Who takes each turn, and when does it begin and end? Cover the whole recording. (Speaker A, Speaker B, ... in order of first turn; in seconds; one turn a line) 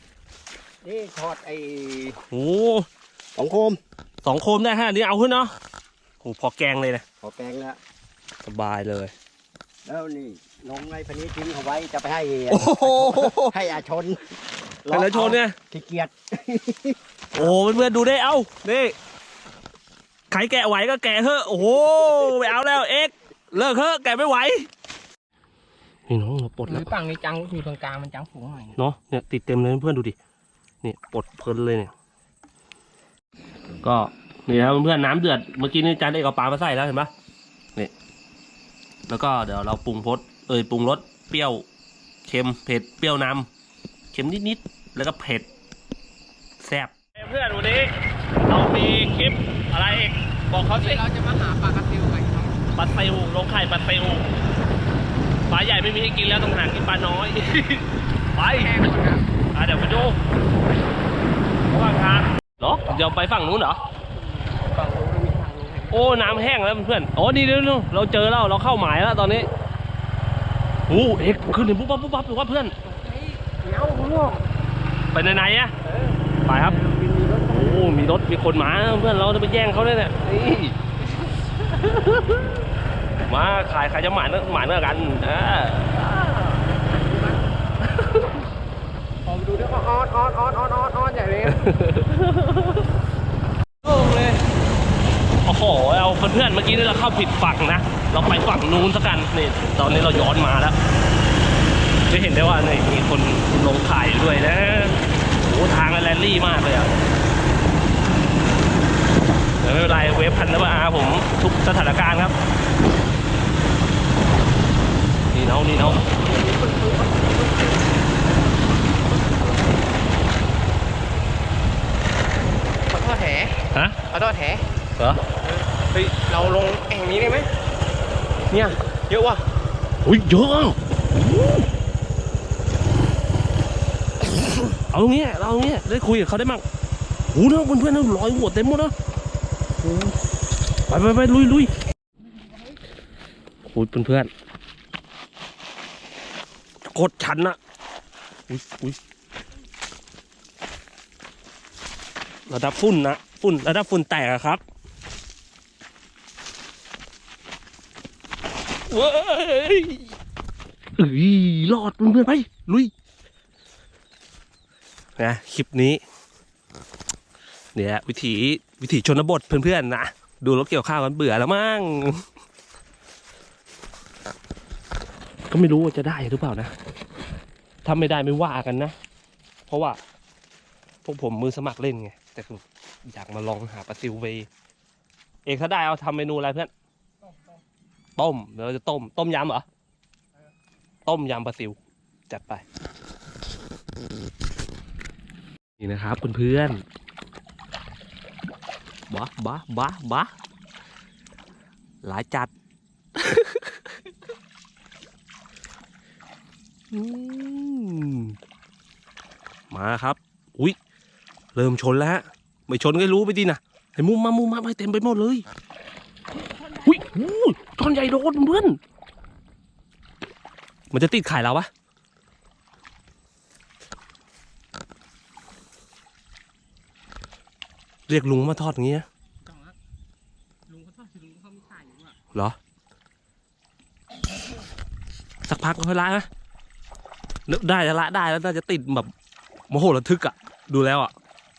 Speaker A: 0.8-2.2
Speaker B: 2.3-2.9
Speaker A: 3.4-3.8
Speaker B: 4.2-5.5
Speaker B: 6.2-7.0
Speaker A: 7.2-7.8
Speaker B: 8.4-9.1
Speaker A: 9.8-14.3
Speaker B: 12.5-13.5
Speaker A: 14.8-17.0
Speaker B: 14.9-15.6
Speaker B: 17.3-18.9
Speaker B: 20.3-24.7
Speaker B: 26.1-26.9
Speaker C: 26.7-28.8
Speaker B: 28.8-30.1
Speaker B: 30.8-31.9
Speaker B: 33.8-37.1
Speaker B: 39.1-41.6
Speaker B: 42.2-43.5
Speaker B: 44.1-45.5
Speaker B: 46.6-47.9
Speaker B: 48.5-51.0
Speaker C: 50.7-52.6
Speaker B: 52.7-54.3
Speaker B: 55.5-58.8
Speaker C: 58.4-59.2
Speaker B: 59.5-60.2
Speaker B: 61.7-63.8
Speaker C: 64.2-66.2
Speaker B: 65.9-69.5
Speaker B: 70.9-72.7
Speaker C: 72.8-74.4
Speaker B: 75.1-75.7
Speaker B: 76.4-76.8
Speaker C: 76.5-77.3
Speaker A: 77.1-77.4
Speaker B: 77.4-80.8
Speaker C: 81.1-81.4
Speaker B: 81.7-82.6
Speaker B: 83.3-86.6
Speaker C: 86.9-87.5
Speaker C: 89.2-91.8
Speaker B: 91.5-92.8
Speaker C: 93.9-94.3
Speaker B: 95.4-100.8
Speaker B: 102.1-106.9
Speaker B: 109.6-112.3
Speaker B: 115.3-116.0
Speaker C: 116.2-117.7
Speaker C: 122.9-124.7
Speaker B: 125.0-125.2
Speaker C: 125.4-127.5
Speaker C: 128.5-129.4
Speaker B: 130.0-130.8
Speaker B: 134.7-136.6
Speaker B: 137.3-138.9
Speaker B: 139.8-140.2
Speaker B: 140.9-141.7
Speaker B: 143.7-144.3
Speaker B: 146.8-147.6
Speaker B: 148.5-149.0
Speaker B: 152.5-154.6
Speaker B: 158.9-160.1
Speaker B: 161.0-162.9
Speaker B: 165.2-166.0
Speaker B: 167.7-172.2
Speaker B: 175.5-176.7
Speaker B: 177.8-178.9
Speaker B: 179.7-180.0
Speaker B: 181.0-184.5
Speaker B: 185.4-186.7
Speaker C: 187.2-187.6
Speaker B: 188.2-189.6
Speaker B: 191.0-191.8
Speaker B: 192.3-192.6
Speaker B: 195.8-196.8
Speaker B: 199.1-200.3
Speaker B: 202.0-202.5
Speaker B: 203.2-203.8
Speaker B: 206.9-208.4
Speaker B: 209.7-210.8
Speaker B: 211.5-215.4
Speaker B: 216.8-218.8
Speaker B: 220.9-221.7
Speaker B: 228.1-229.1
Speaker C: 229.4-229.8
Speaker C: 230.7-232.2
Speaker B: 235.5-236.3
Speaker B: 237.5-239.1
Speaker B: 239.7-241.1